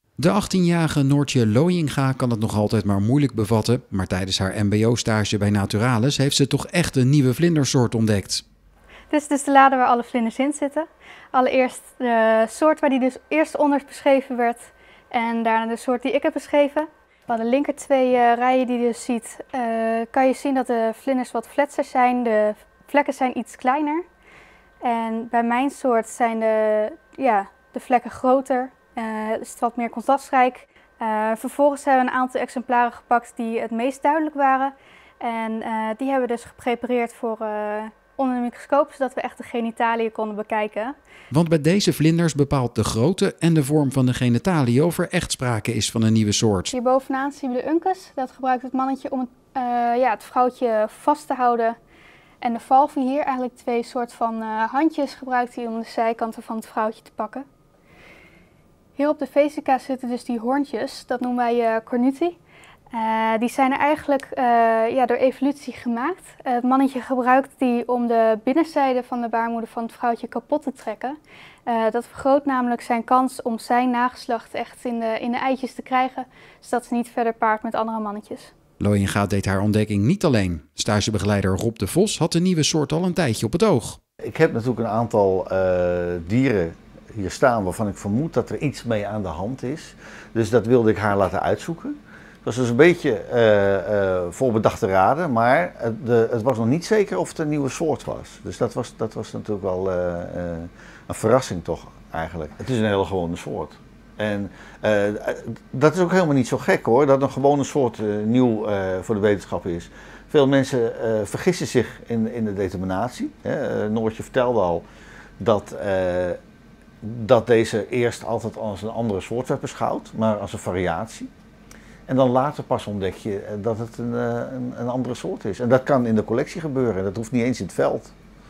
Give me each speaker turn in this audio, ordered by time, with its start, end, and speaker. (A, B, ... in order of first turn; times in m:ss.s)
0:00.2-0:08.4 A
0:09.1-0:24.0 B
0:24.8-0:40.9 B
0:41.3-0:46.7 A
0:46.7-0:51.8 B
0:52.4-0:57.4 B
0:59.0-1:02.4 B
1:02.9-1:18.5 B
1:18.8-1:24.0 A
1:24.2-1:54.8 C
1:55.4-1:56.4 C
1:57.0-2:01.3 C
2:02.1-2:08.1 C